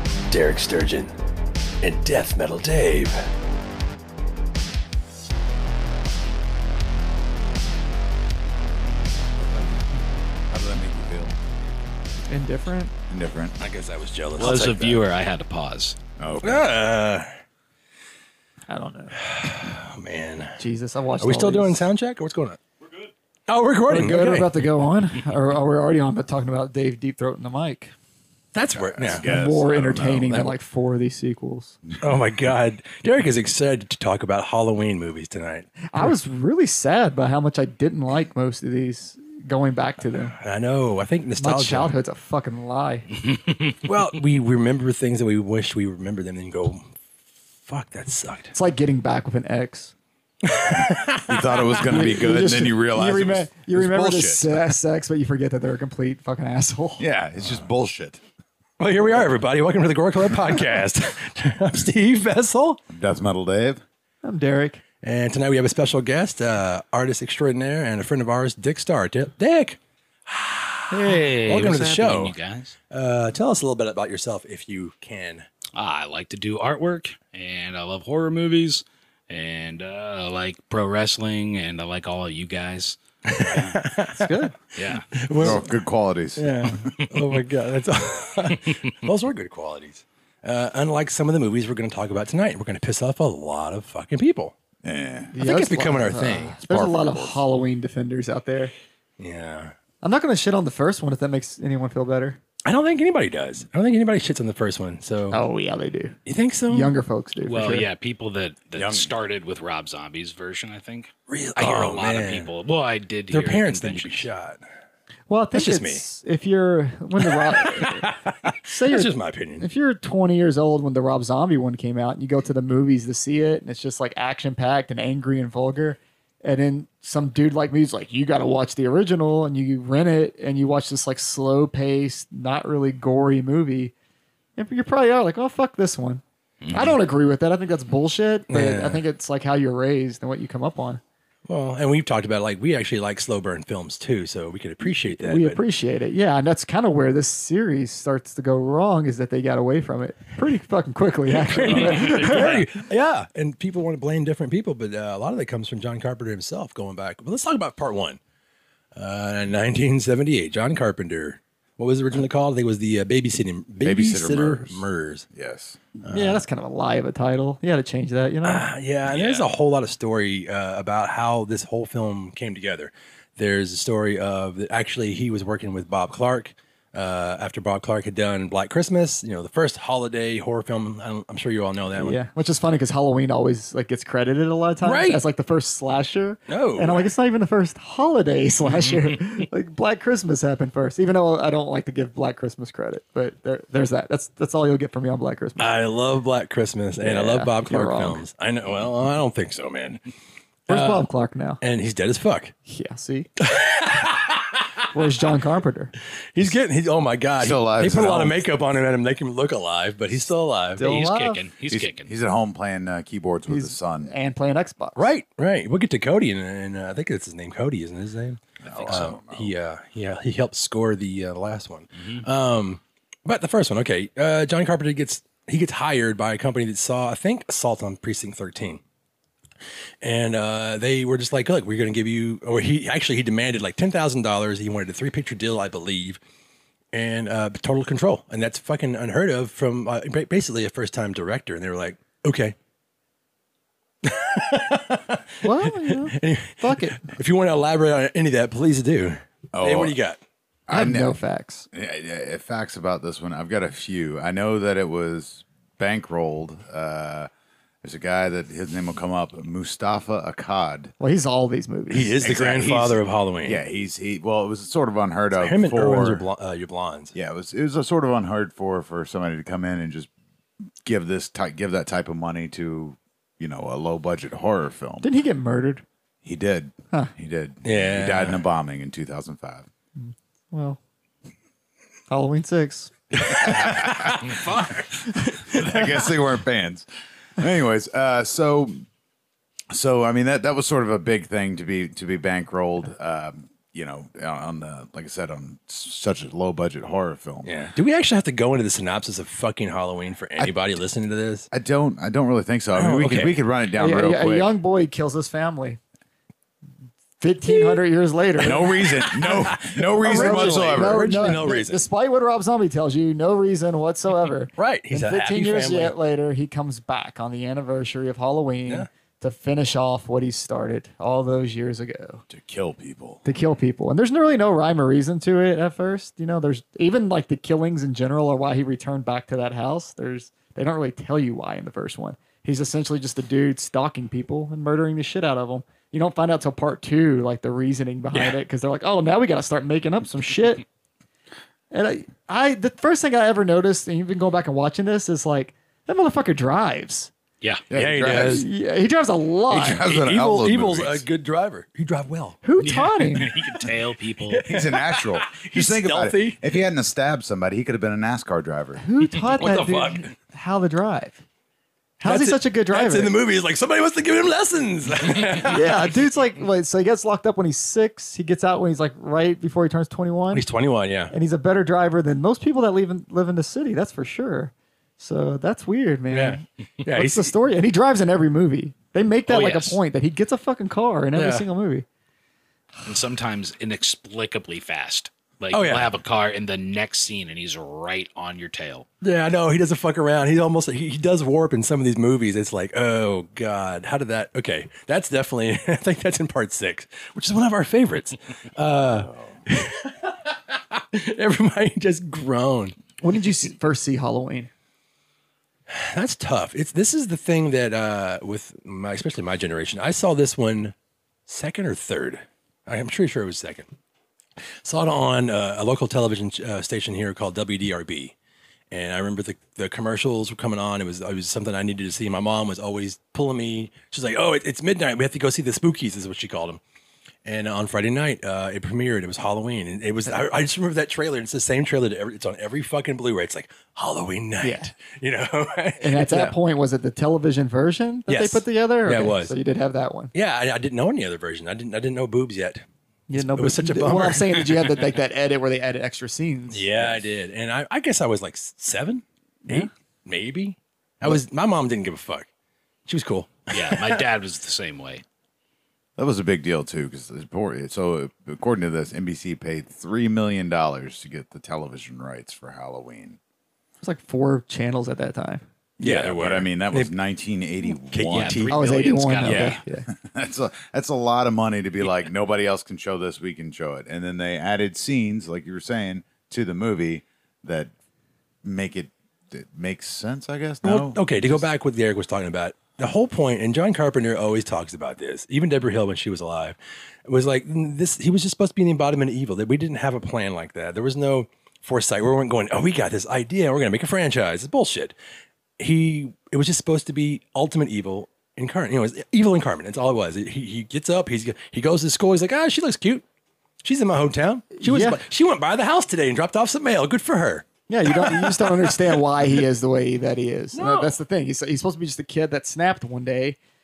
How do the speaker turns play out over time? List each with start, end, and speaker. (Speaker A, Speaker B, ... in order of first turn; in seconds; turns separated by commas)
Speaker A: 0.3-1.1, Speaker A: 1.8-3.2, Speaker B: 10.5-11.4, Speaker C: 12.3-12.9, Speaker B: 13.1-13.6, Speaker A: 13.6-15.0, Speaker D: 14.4-16.0, Speaker B: 16.2-16.7, Speaker A: 16.4-17.3, Speaker C: 18.7-19.2, Speaker A: 19.2-20.6, Speaker C: 20.6-21.9, Speaker A: 21.2-22.6, Speaker A: 23.5-24.6, Speaker C: 23.9-27.9, Speaker A: 28.5-29.3, Speaker B: 28.8-30.5, Speaker C: 29.1-31.8, Speaker A: 32.0-36.1, Speaker C: 35.9-40.3, Speaker A: 40.3-41.9, Speaker C: 41.4-43.1, Speaker A: 43.8-46.9, Speaker A: 47.6-48.5, Speaker C: 48.5-49.9, Speaker A: 50.4-51.9, Speaker B: 51.2-54.7, Speaker C: 51.9-57.0, Speaker B: 57.0-58.2, Speaker A: 58.8-62.8, Speaker B: 62.9-63.8, Speaker C: 64.2-64.8, Speaker A: 65.0-72.3, Speaker D: 70.9-72.7, Speaker A: 72.9-75.5, Speaker D: 75.7-83.8, Speaker A: 83.3-85.7, Speaker C: 84.1-84.5, Speaker D: 84.7-85.1, Speaker B: 85.4-86.8, Speaker A: 86.3-94.5, Speaker D: 87.0-87.3, Speaker B: 94.8-95.3, Speaker C: 95.3-98.7, Speaker A: 95.4-96.5, Speaker B: 96.6-97.4, Speaker A: 99.2-99.7, Speaker C: 100.0-102.4, Speaker A: 102.6-105.4, Speaker C: 105.3-106.2, Speaker A: 106.2-106.9, Speaker C: 106.7-107.9, Speaker D: 107.5-114.3, Speaker B: 108.8-109.1, Speaker A: 111.3-112.5, Speaker A: 113.3-114.6, Speaker C: 115.3-118.1, Speaker A: 115.5-116.0, Speaker A: 117.2-119.7, Speaker C: 118.6-133.9, Speaker C: 134.6-141.0, Speaker D: 136.6-137.0, Speaker A: 138.5-139.0, Speaker A: 141.5-145.6, Speaker C: 145.2-152.8, Speaker A: 151.4-158.2, Speaker B: 151.5-152.0, Speaker A: 158.9-165.2, Speaker B: 163.8-165.8, Speaker A: 166.0-166.4, Speaker C: 166.1-168.7, Speaker A: 168.4-182.2, Speaker D: 169.1-169.4, Speaker C: 182.0-195.8, Speaker A: 184.8-185.2, Speaker A: 186.5-187.1, Speaker A: 195.6-200.0, Speaker C: 197.0-198.2, Speaker A: 200.7-201.1, Speaker C: 200.7-201.6, Speaker A: 201.6-202.5, Speaker C: 202.7-203.3, Speaker A: 203.4-204.7, Speaker C: 204.9-205.9, Speaker A: 206.3-210.8, Speaker B: 207.4-208.4, Speaker C: 210.8-211.4, Speaker D: 210.8-212.1, Speaker B: 211.7-214.1, Speaker C: 213.5-215.1, Speaker A: 215.0-228.8, Speaker B: 218.6-219.5, Speaker D: 218.7-219.0, Speaker A: 230.0-236.2, Speaker A: 236.9-242.6, Speaker A: 244.0-250.2, Speaker C: 245.4-247.0, Speaker B: 249.5-250.0, Speaker B: 250.7-251.1, Speaker C: 250.7-251.7, Speaker B: 251.7-257.3, Speaker B: 257.8-260.9, Speaker C: 261.0-262.2, Speaker A: 261.9-263.6, Speaker B: 262.2-266.2, Speaker A: 265.4-267.1, Speaker B: 267.1-270.1, Speaker B: 270.8-275.1, Speaker C: 275.0-275.8, Speaker B: 276.2-279.6, Speaker A: 277.6-278.4, Speaker C: 279.9-280.8, Speaker C: 282.1-283.8, Speaker A: 283.2-286.1, Speaker B: 283.4-284.3, Speaker C: 285.1-285.4, Speaker B: 285.5-288.8, Speaker B: 289.7-297.5, Speaker A: 297.4-301.5, Speaker B: 301.5-304.5, Speaker A: 302.7-303.4, Speaker C: 303.8-305.8, Speaker C: 307.2-308.8, Speaker B: 308.4-311.4, Speaker A: 308.7-311.8, Speaker C: 310.0-322.2, Speaker A: 314.6-315.9, Speaker B: 322.3-323.2, Speaker C: 323.2-340.6, Speaker C: 341.7-347.1, Speaker B: 347.7-348.5, Speaker A: 347.7-348.4, Speaker C: 348.2-349.8, Speaker B: 349.5-351.1, Speaker A: 349.8-352.4, Speaker C: 352.4-353.4, Speaker D: 352.6-354.5, Speaker A: 353.6-356.4, Speaker B: 354.4-358.8, Speaker C: 358.8-361.2, Speaker A: 359.2-360.1, Speaker C: 362.0-363.1, Speaker A: 362.0-365.9, Speaker C: 365.4-370.4, Speaker A: 370.3-371.1, Speaker C: 371.1-381.8, Speaker A: 376.1-377.3, Speaker D: 379.3-379.8, Speaker A: 381.1-381.4, Speaker D: 382.8-388.9, Speaker A: 385.5-385.9, Speaker A: 389.0-402.8, Speaker B: 399.0-399.3, Speaker C: 403.0-404.5, Speaker A: 405.7-410.7, Speaker A: 411.3-413.7, Speaker A: 414.6-418.1, Speaker A: 418.7-426.6, Speaker A: 427.2-436.3, Speaker C: 434.4-434.7, Speaker C: 435.8-440.1, Speaker A: 438.1-439.4, Speaker A: 440.1-442.6, Speaker C: 443.1-446.7, Speaker A: 443.1-444.7, Speaker A: 446.5-452.3, Speaker A: 452.9-454.0, Speaker D: 453.5-455.0, Speaker B: 456.0-463.2, Speaker C: 463.8-465.4, Speaker A: 465.8-466.9, Speaker B: 465.8-468.6, Speaker A: 467.9-469.6, Speaker D: 468.1-469.6, Speaker C: 468.5-469.9, Speaker B: 469.9-477.7, Speaker B: 478.4-481.4, Speaker A: 480.6-494.9, Speaker A: 495.6-503.0, Speaker A: 503.6-509.0, Speaker C: 504.6-505.0, Speaker C: 507.7-513.4, Speaker A: 510.5-510.9